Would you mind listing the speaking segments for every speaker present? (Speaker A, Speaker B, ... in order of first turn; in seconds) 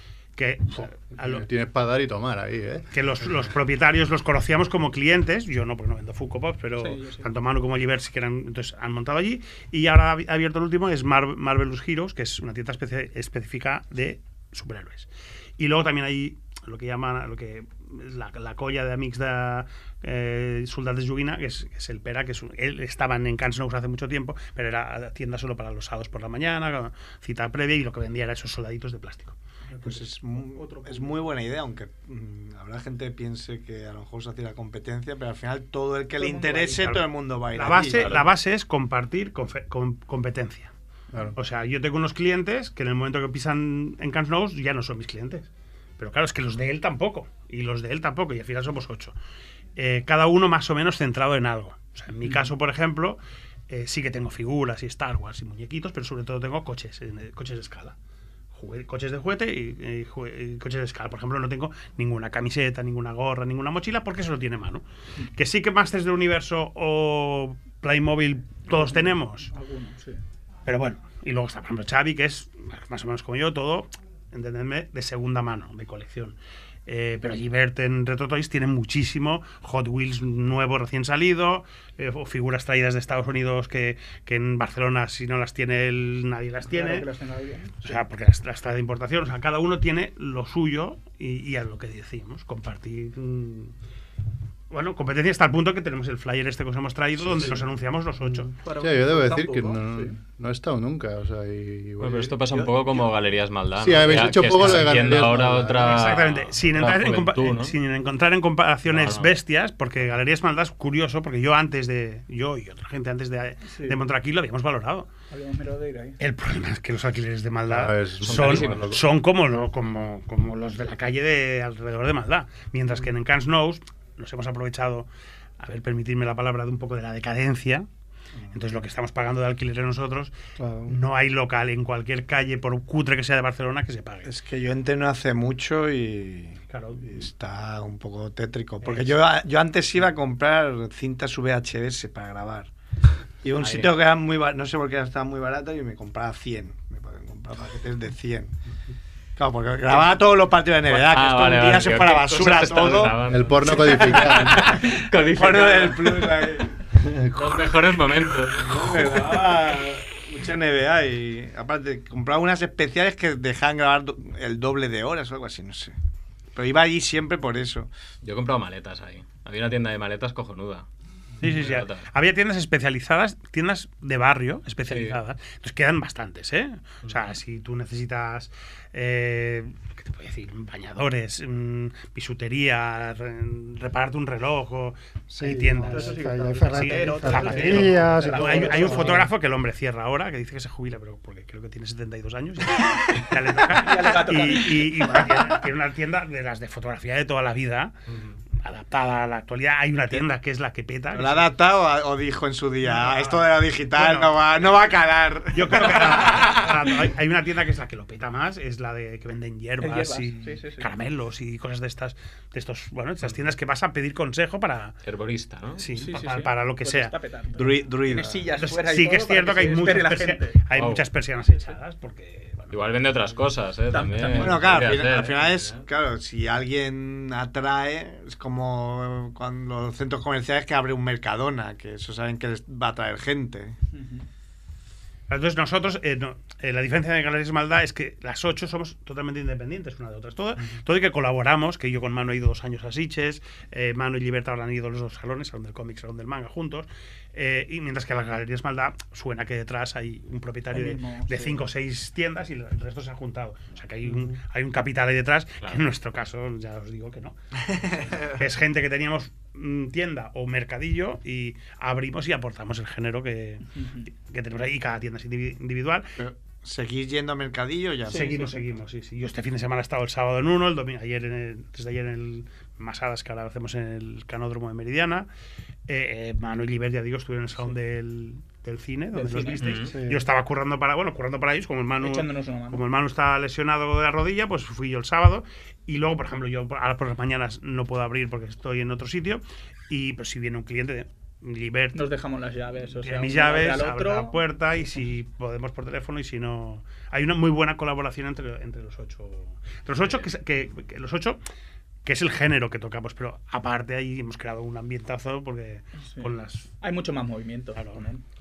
Speaker A: 0.4-1.5, 2.9-29.4, 37.5-40.7, 41.3-49.1, 49.8-58.0, 58.5-69.5, 70.7-87.1, 87.8-93.8, 94.7-98.5, 105.7-115.1, 116.2-125.1, 125.6-127.9, 128.5-130.3, 130.9-134.3, 136.7-137.2, 138.8-139.2, 171.4-197.9, 198.6-201.5, 202.8-204.4, 205.5-215.0, 215.8-217.2, 218.5-223.0, 235.3-257.4, 258.2-266.1, 268.1-275.3, 275.9-292.1, 292.8-301.4, 302.1-306.7, 307.7-308.1
Speaker B: 1.2-2.9, 98.8-103.0, 103.8-106.0, 117.7-119.0, 153.2-154.8, 157.0-157.7, 158.8-159.2
Speaker C: 6.8-7.3, 30.4-31.2, 36.2-36.9, 68.7-70.2, 86.7-88.0, 98.6-100.1, 113.7-114.0, 115.3-116.2, 185.9-189.3, 193.7-195.1, 209.8-210.9, 215.9-220.6, 223.9-224.9, 233.9-234.2, 250.7-251.7, 263.8-264.1, 268.1-268.6, 279.1-279.8, 282.0-282.8, 291.9-294.4, 306.1-308.2
Speaker D: 29.8-38.2, 134.3-142.7, 143.4-148.5, 149.4-156.7, 158.6-165.9, 166.6-167.9, 201.1-206.9, 217.6-218.4, 224.3-233.8, 257.8-258.3, 266.2-268.3
Speaker E: 102.0-107.8, 108.9-109.3, 118.2-119.0, 143.6-143.9, 150.9-156.5, 157.3-158.7, 168.2-170.9, 171.4-172.1, 174.9-175.2, 215.0-215.9, 220.7-221.1, 222.7-225.9, 279.6-279.9
Speaker F: 130.6-130.9, 185.3-189.3, 279.9-280.2